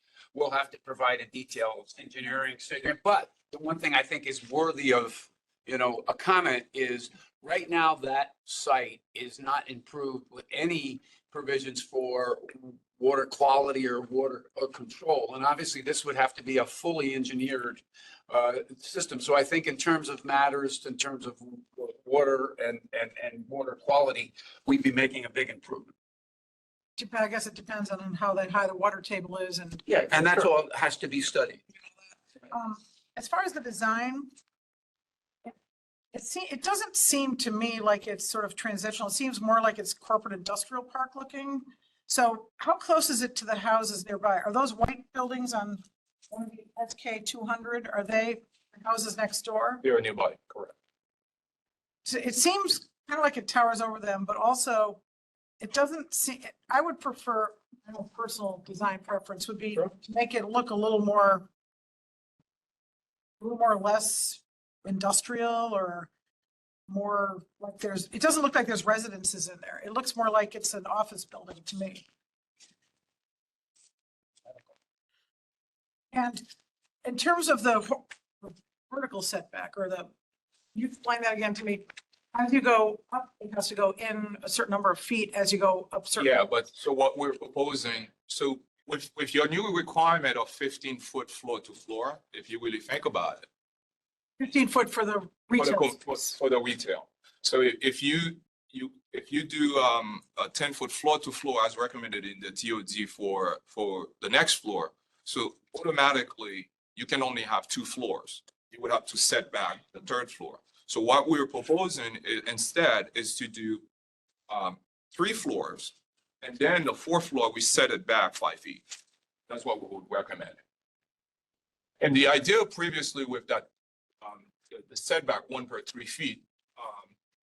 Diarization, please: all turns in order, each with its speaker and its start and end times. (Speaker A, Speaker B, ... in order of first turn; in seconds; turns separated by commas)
Speaker A: 0.3-25.9, Speaker B: 27.0-30.1, Speaker A: 30.1-31.6, Speaker B: 32.5-34.3, Speaker B: 36.1-49.8, Speaker C: 49.8-50.7, Speaker B: 52.0-55.0, Speaker B: 55.6-61.5, Speaker B: 63.4-66.1, Speaker B: 66.9-72.1, Speaker B: 76.1-76.5, Speaker B: 77.0-80.1, Speaker B: 80.7-86.5, Speaker C: 86.2-93.5, Speaker B: 94.4-96.4, Speaker C: 95.6-113.9, Speaker C: 114.5-118.8, Speaker C: 119.5-120.6, Speaker C: 122.0-123.7, Speaker C: 124.2-127.1